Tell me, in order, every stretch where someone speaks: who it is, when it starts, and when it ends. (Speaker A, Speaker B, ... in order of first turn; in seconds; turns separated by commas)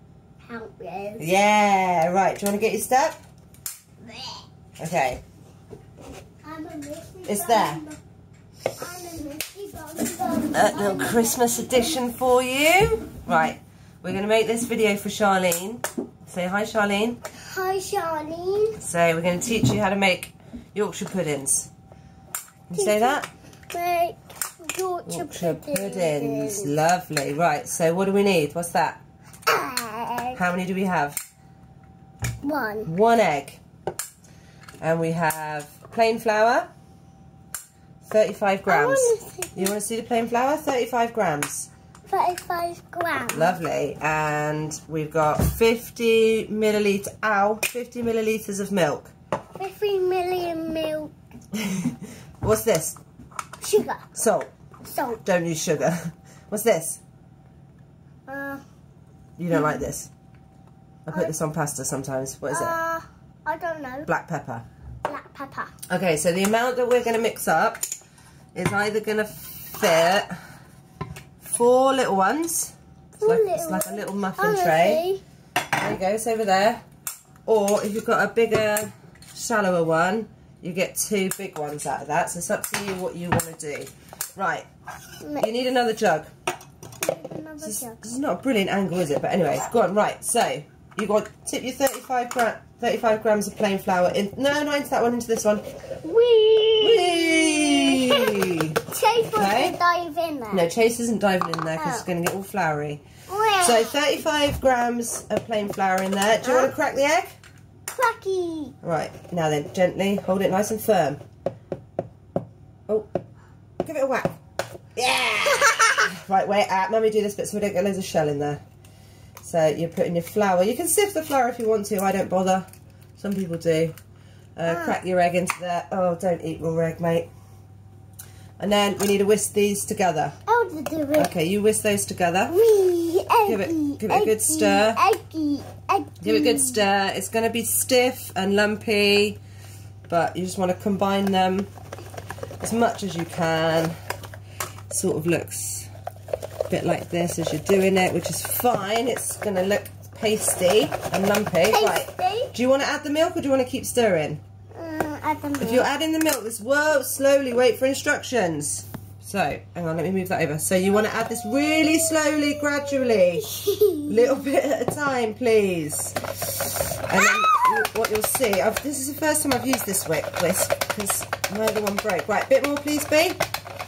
Speaker A: 0.4-1.2, Speaker B: 1.2-3.2, Speaker A: 4.0-4.5, Speaker B: 4.8-5.2, Speaker A: 6.4-8.0, Speaker B: 7.2-7.8, Speaker A: 8.8-12.0, Speaker B: 10.5-17.2, Speaker A: 17.4-18.8, Speaker B: 18.8-21.7, Speaker B: 22.7-23.3, Speaker A: 22.7-26.7, Speaker B: 25.1-29.0, Speaker A: 29.5-30.4, Speaker B: 30.3-31.2, Speaker A: 32.4-32.9, Speaker B: 32.9-33.6, Speaker B: 34.8-36.7, Speaker B: 38.0-41.7, Speaker A: 38.7-39.7, Speaker A: 42.1-43.6, Speaker B: 43.3-49.1, Speaker A: 49.6-51.1, Speaker B: 51.5-53.0, Speaker A: 53.6-54.1, Speaker B: 54.1-54.5, Speaker A: 54.9-55.2, Speaker B: 55.2-57.0, Speaker A: 58.3-58.6, Speaker B: 59.4-60.1, Speaker A: 59.5-59.9, Speaker B: 61.1-62.8, Speaker A: 62.5-64.1, Speaker B: 64.1-64.7, Speaker A: 65.1-65.7, Speaker B: 65.9-67.8, Speaker B: 68.5-70.3, Speaker B: 71.4-75.0, Speaker A: 73.2-75.2, Speaker B: 75.8-76.8, Speaker B: 77.5-84.7, Speaker B: 85.4-86.3, Speaker A: 87.0-88.2, Speaker B: 87.6-95.6, Speaker A: 96.0-100.7, Speaker B: 96.8-98.8, Speaker B: 99.3-99.8, Speaker B: 100.5-103.0, Speaker A: 101.7-102.1, Speaker A: 103.3-104.0, Speaker B: 103.6-107.3, Speaker A: 106.4-106.7, Speaker A: 107.9-108.7, Speaker B: 108.8-111.2, Speaker B: 113.8-114.4, Speaker B: 115.0-118.6, Speaker A: 115.6-116.0, Speaker B: 119.4-123.9, Speaker B: 124.5-127.3, Speaker A: 124.7-125.0, Speaker B: 128.6-130.3, Speaker A: 130.5-131.3, Speaker B: 131.1-132.6, Speaker A: 132.5-136.8, Speaker B: 133.4-135.0, Speaker B: 136.2-139.4, Speaker B: 140.1-141.7, Speaker B: 142.6-143.9, Speaker B: 144.9-145.9, Speaker B: 146.7-154.4, Speaker A: 151.7-152.5, Speaker A: 154.8-155.9, Speaker B: 155.6-163.5, Speaker A: 161.7-164.4, Speaker B: 164.1-173.4, Speaker A: 167.2-167.6